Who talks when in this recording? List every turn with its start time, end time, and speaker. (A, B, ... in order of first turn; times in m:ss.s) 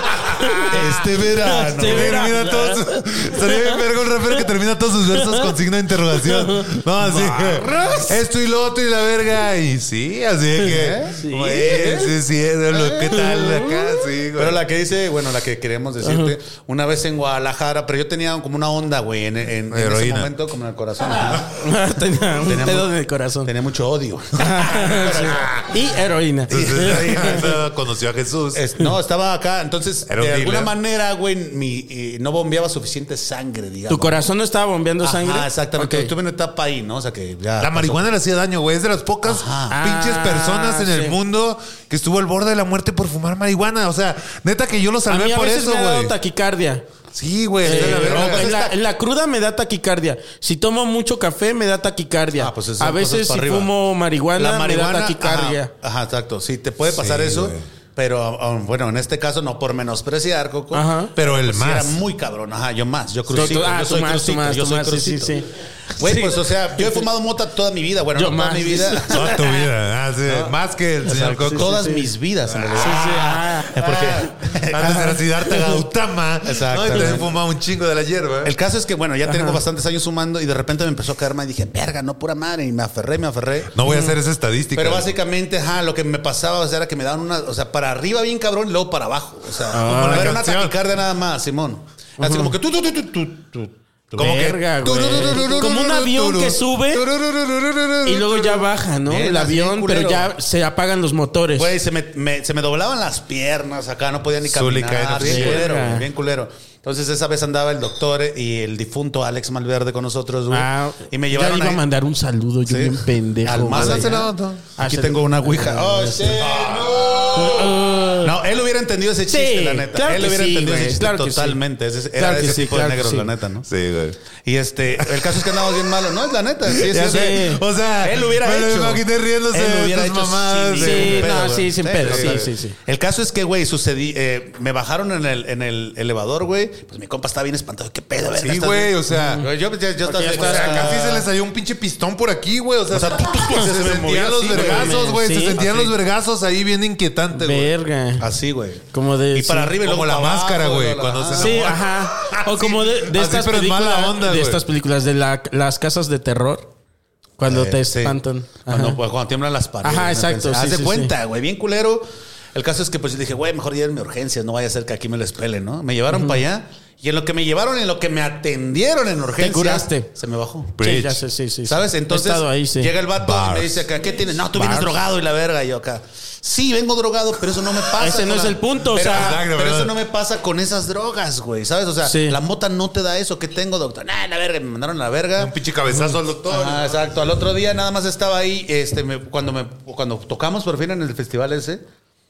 0:00.4-0:03.8 A
0:00.7-0:02.3 B
0:01.8-0:14.6 C
0:05.2-0:05.5 A
0:06.1-0:08.2 A
0:10.6-0:12.1 A
0:10.7-0:11.2 B
0:11.7-0:12.0 B
0:12.7-0:13.4 B
0:13.1-0:13.8 A
0:14.4-0:21.6 B
0:16.0-0:16.3 A
0:19.7-0:20.3 C
0:21.5-0:23.5 A
0:22.3-0:22.9 B
0:23.4-0:25.6 B
0:24.4-0:27.5 A
0:25.2-0:25.7 C
0:26.5-0:28.6 C
0:26.6-0:27.6 B
0:28.5-0:34.2 B
0:30.1-0:30.7 C
0:33.9-0:36.1 A
0:35.0-0:38.0 B
0:37.6-0:46.1 C
0:39.2-0:39.8 B
0:39.7-0:41.2 A
0:45.1-0:46.8 A
0:47.1-0:48.6 C
0:47.6-0:55.7 A
0:47.6-0:48.8 B
0:52.4-0:53.7 B
0:54.4-1:05.4 B
0:56.8-0:57.6 C
1:00.7-1:01.1 A
1:01.2-1:02.0 C
1:03.3-1:07.0 A
1:06.0-1:09.4 B
1:08.2-1:09.6 A
1:09.1-1:11.7 C
1:10.3-1:10.5 B
1:11.1-1:15.2 B
1:11.1-1:12.1 A
1:12.5-1:18.6 C
1:12.8-1:13.8 A
1:15.5-1:15.8 A
1:16.4-1:17.3 B
1:18.4-1:23.7 B
1:19.2-1:19.6 A
1:23.7-1:25.1 C
1:23.8-1:24.2 A
1:24.7-1:34.3 B
1:29.7-1:30.4 A
1:29.8-1:30.8 C
1:32.2-1:32.5 A
1:34.2-1:37.1 A
1:34.2-1:38.7 C
1:38.0-1:41.7 A
1:39.1-1:40.3 B
1:41.6-1:51.8 B
1:44.4-1:45.7 C
1:45.2-1:46.1 A
1:50.5-1:54.2 A
1:52.7-1:57.4 B
1:53.7-1:54.7 C
1:54.8-1:56.5 A
1:56.2-1:57.8 C
1:57.3-1:58.3 A
1:58.2-2:03.7 B
1:59.3-2:01.6 A
2:02.2-2:03.3 A
2:03.7-2:04.2 C
2:04.4-2:07.4 B
2:05.0-2:06.0 C
2:06.7-2:11.4 C
2:07.0-2:07.6 A
2:08.0-2:21.3 B
2:10.8-2:12.8 A
2:12.0-2:12.5 C
2:18.4-2:19.4 C
2:19.1-2:19.5 A
2:20.0-2:20.9 A
2:20.2-2:27.7 C
2:22.9-2:25.0 B
2:24.5-2:25.6 A
2:25.6-2:26.0 B
2:27.3-2:28.3 A
2:28.2-2:31.8 B
2:28.9-2:29.8 A
2:29.8-2:34.6 C
2:31.4-2:36.7 A
2:37.4-2:39.0 A
2:37.5-2:50.7 B
2:39.8-2:41.1 A
2:46.1-2:46.4 A
2:49.4-2:50.1 A
2:50.8-2:51.2 C
2:50.8-2:52.9 A
2:51.6-3:05.5 B
2:53.2-2:53.9 C
2:54.6-2:54.9 A
2:58.0-2:59.4 A
2:59.1-2:59.9 C
3:02.0-3:02.4 A
3:05.4-3:06.9 C
3:06.5-3:11.8 B